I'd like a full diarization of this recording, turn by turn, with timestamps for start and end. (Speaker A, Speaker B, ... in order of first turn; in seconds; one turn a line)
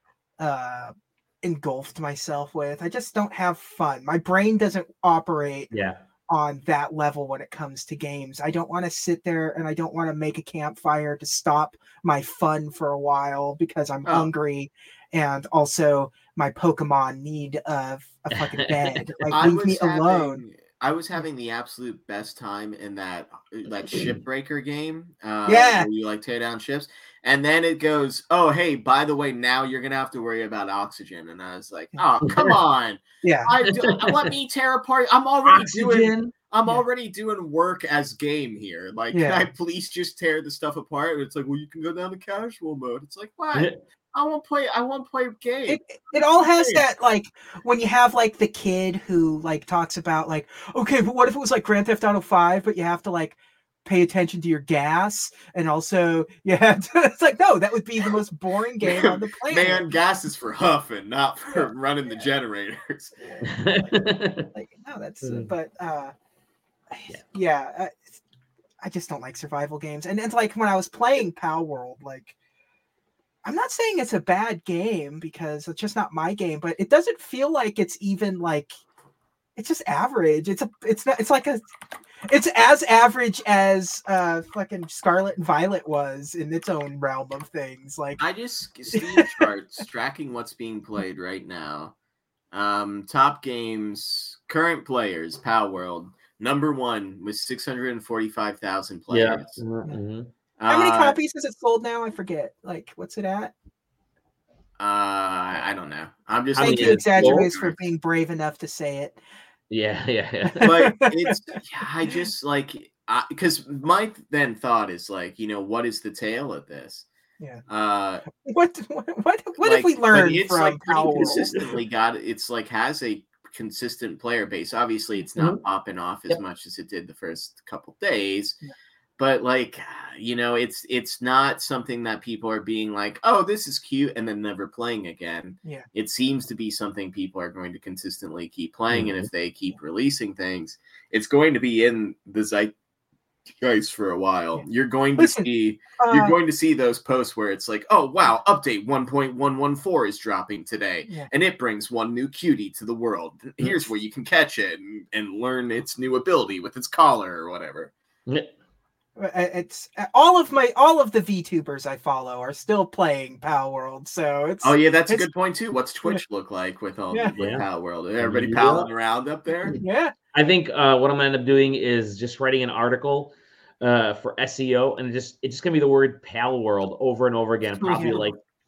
Speaker A: 0.4-5.7
Speaker B: 5.7-6.0
Speaker A: 6.3-20.4
Speaker B: 18.3-19.3
Speaker C: 19.3-46.8
Speaker A: 25.5-25.9
Speaker B: 32.2-32.5
Speaker A: 33.2-33.5
Speaker B: 33.6-34.3
Speaker B: 35.5-36.3
Speaker A: 39.1-39.4
Speaker A: 45.7-59.9
Speaker C: 58.8-63.2
Speaker A: 63.2-66.1
Speaker B: 63.4-64.5
Speaker B: 65.2-65.5
Speaker A: 66.9-68.2
Speaker A: 68.8-72.3
Speaker A: 73.4-78.7
Speaker A: 79.6-81.7
Speaker A: 82.3-88.2
Speaker C: 88.2-91.9
Speaker A: 88.9-89.5
Speaker C: 92.5-99.6
Speaker B: 99.1-100.3
Speaker C: 100.6-101.2
Speaker A: 100.7-103.5
Speaker C: 104.8-107.8
Speaker A: 106.6-109.2
Speaker B: 106.6-107.5
Speaker B: 109.7-110.7
Speaker A: 110.6-111.5
Speaker C: 110.6-117.1
Speaker C: 117.7-118.2
Speaker A: 118.3-121.5
Speaker C: 119.6-128.6
Speaker B: 121.3-121.8
Speaker C: 129.2-142.7
Speaker B: 138.9-139.3
Speaker C: 143.6-157.9
Speaker A: 145.2-145.5
Speaker A: 146.0-146.3
Speaker A: 159.2-165.3
Speaker C: 164.6-169.8
Speaker B: 167.4-167.7
Speaker B: 168.2-168.9
Speaker A: 169.8-170.1
Speaker B: 170.3-178.4
Speaker C: 177.8-178.2
Speaker A: 177.9-178.2